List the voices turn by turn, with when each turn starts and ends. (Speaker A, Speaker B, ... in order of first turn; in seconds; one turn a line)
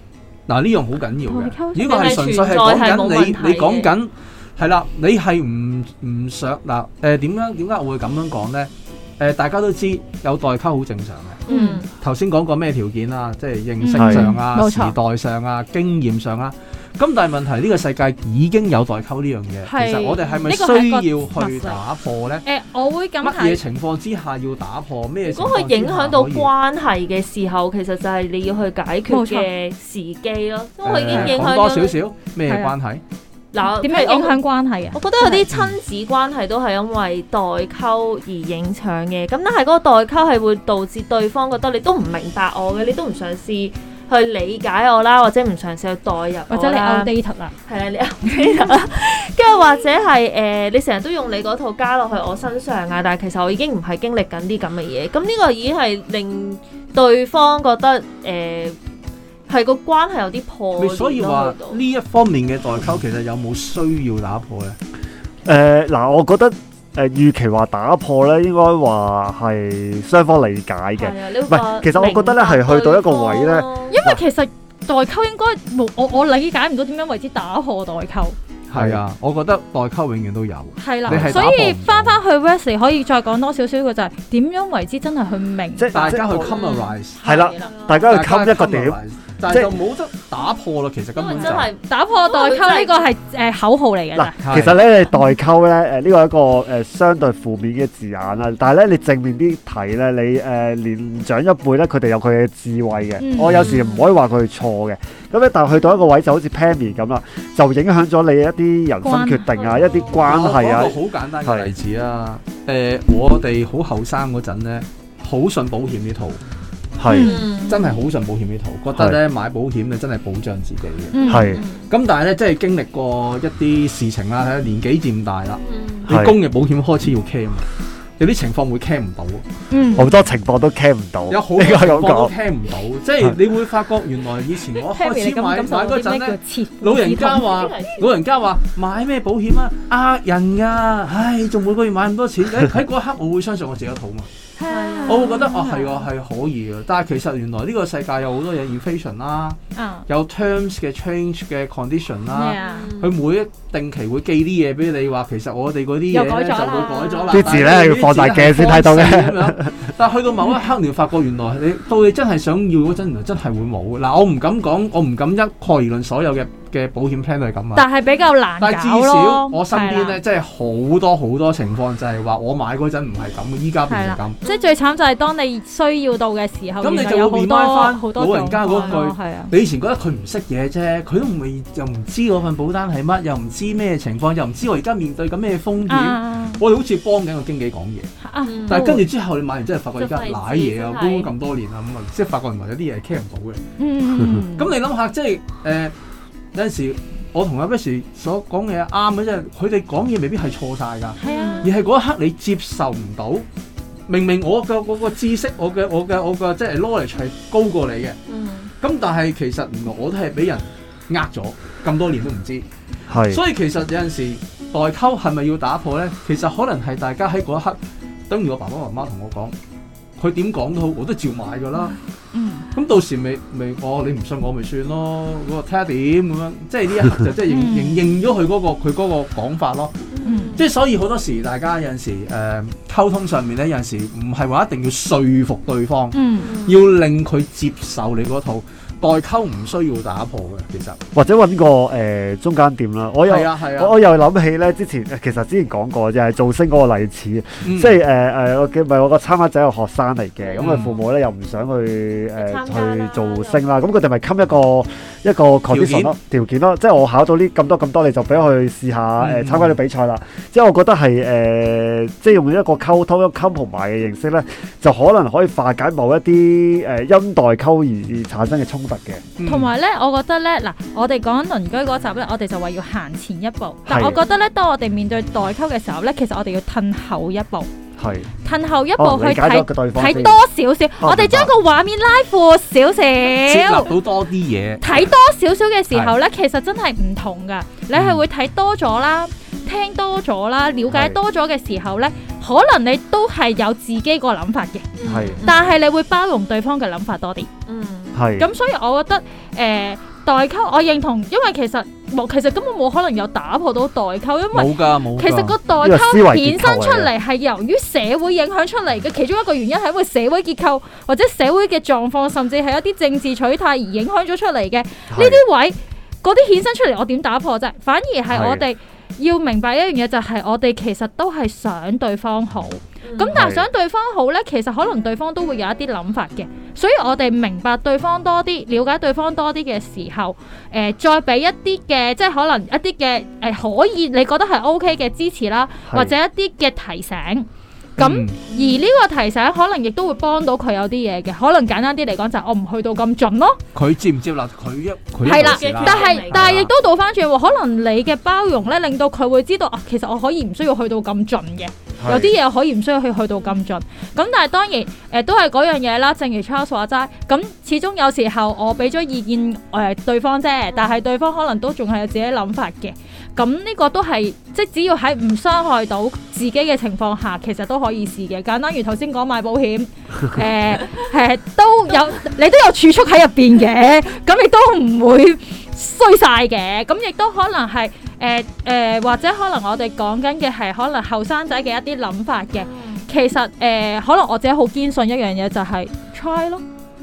Speaker A: 0.5-11.4
Speaker B: 1.3-2.3
Speaker C: 1.8-3.9
Speaker C: 11.5-11.9
Speaker B: 11.5-11.8
Speaker A: 11.9-22.4
Speaker B: 13.8-14.9
Speaker D: 14.0-14.3
Speaker B: 19.6-21.8
Speaker C: 19.7-20.5
Speaker B: 22.4-23.6
Speaker A: 23.2-26.5
Speaker C: 25.2-32.0
Speaker B: 29.1-29.5
Speaker A: 30.8-33.0
Speaker B: 31.1-31.4
Speaker B: 32.5-32.7
Speaker C: 33.5-34.4
Speaker B: 33.6-35.5
Speaker C: 34.9-47.1
Speaker A: 35.5-35.8
Speaker B: 46.5-47.5
Speaker C: 47.6-58.8
Speaker B: 48.2-48.7
Speaker C: 59.5-61.8
Speaker A: 60.8-64.8
Speaker D: 65.5-74.2
Speaker C: 71.0-74.0
Speaker B: 73.9-78.3
Speaker A: 78.7-82.2
Speaker D: 78.7-79.0
Speaker B: 80.8-87.8
Speaker D: 81.1-81.5
Speaker D: 85.8-86.5
Speaker A: 85.9-87.2
Speaker C: 86.4-88.1
Speaker D: 87.2-89.7
Speaker A: 88.0-91.7
Speaker C: 91.1-93.0
Speaker B: 91.3-95.3
Speaker D: 94.1-111.7
Speaker A: 94.4-94.8
Speaker B: 103.2-103.7
Speaker C: 103.5-104.1
Speaker B: 109.0-109.6
Speaker C: 109.5-110.3
Speaker A: 110.1-116.4
Speaker D: 117.0-117.3
Speaker B: 117.0-117.5
Speaker C: 117.1-117.9
Speaker A: 117.6-121.2
Speaker D: 118.9-119.2
Speaker B: 121.1-121.6
Speaker C: 121.2-121.9
Speaker D: 121.3-121.6
Speaker A: 121.8-127.7
Speaker C: 125.7-126.1
Speaker D: 126.1-126.4
Speaker A: 128.2-129.4
Speaker B: 129.7-130.1
Speaker D: 129.9-132.3
Speaker A: 131.3-144.3
Speaker B: 134.7-137.8
Speaker C: 137.3-138.1
Speaker B: 144.6-146.1
Speaker C: 144.7-145.6
Speaker A: 145.1-167.9
Speaker B: 149.7-150.1
Speaker B: 152.3-152.9
Speaker C: 152.5-153.2
Speaker B: 156.1-157.4
Speaker C: 156.9-157.4
Speaker D: 157.3-159.8
Speaker B: 167.7-170.2
Speaker A: 168.6-174.4
Speaker B: 173.9-179.5
Speaker C: 174.4-174.7
Speaker A: 176.8-188.1
Speaker C: 178.7-179.0
Speaker B: 185.9-186.6
Speaker B: 188.2-188.8
Speaker C: 188.4-189.1
Speaker A: 188.7-193.6
Speaker C: 190.0-191.3
Speaker B: 193.8-194.7
Speaker A: 194.6-195.9
Speaker A: 196.5-203.4
Speaker B: 201.2-201.7
Speaker C: 201.2-201.7
Speaker A: 204.1-208.2
Speaker C: 208.3-208.7
Speaker A: 208.8-212.7
Speaker D: 213.1-213.4
Speaker A: 213.3-217.8
Speaker A: 218.3-219.5
Speaker A: 220.2-222.0
Speaker B: 221.8-222.7
Speaker A: 222.7-230.0
Speaker B: 227.4-228.0
Speaker C: 230.1-230.7
Speaker B: 230.2-230.6
Speaker A: 230.5-241.0
Speaker B: 236.1-236.5
Speaker C: 236.4-236.9
Speaker D: 241.1-269.2
Speaker A: 243.2-244.0
Speaker A: 247.6-248.0
Speaker C: 250.4-251.0
Speaker A: 250.6-250.9
Speaker C: 252.3-253.7
Speaker A: 255.7-256.1
Speaker A: 259.2-259.8
Speaker A: 269.4-269.7
Speaker B: 269.4-277.7
Speaker D: 273.9-274.2
Speaker D: 278.0-278.3
Speaker B: 278.4-283.9
Speaker D: 279.0-280.4
Speaker D: 281.0-281.5
Speaker A: 283.4-284.8
Speaker B: 284.8-294.9
Speaker A: 287.9-288.2
Speaker D: 290.9-291.2
Speaker C: 295.0-295.7
Speaker D: 295.0-295.4
Speaker B: 295.4-297.5
Speaker C: 297.6-298.2
Speaker D: 298.1-298.5
Speaker B: 298.4-343.6
Speaker A: 304.5-305.6
Speaker D: 305.8-307.1
Speaker D: 315.1-315.4
Speaker D: 318.3-318.6
Speaker C: 323.0-323.4
Speaker D: 323.3-323.6
Speaker A: 338.0-338.3
Speaker C: 338.5-338.8
Speaker A: 343.7-346.7
Speaker B: 345.2-386.6
Speaker C: 345.2-346.4
Speaker D: 352.0-352.3
Speaker C: 360.7-361.0
Speaker C: 382.6-383.0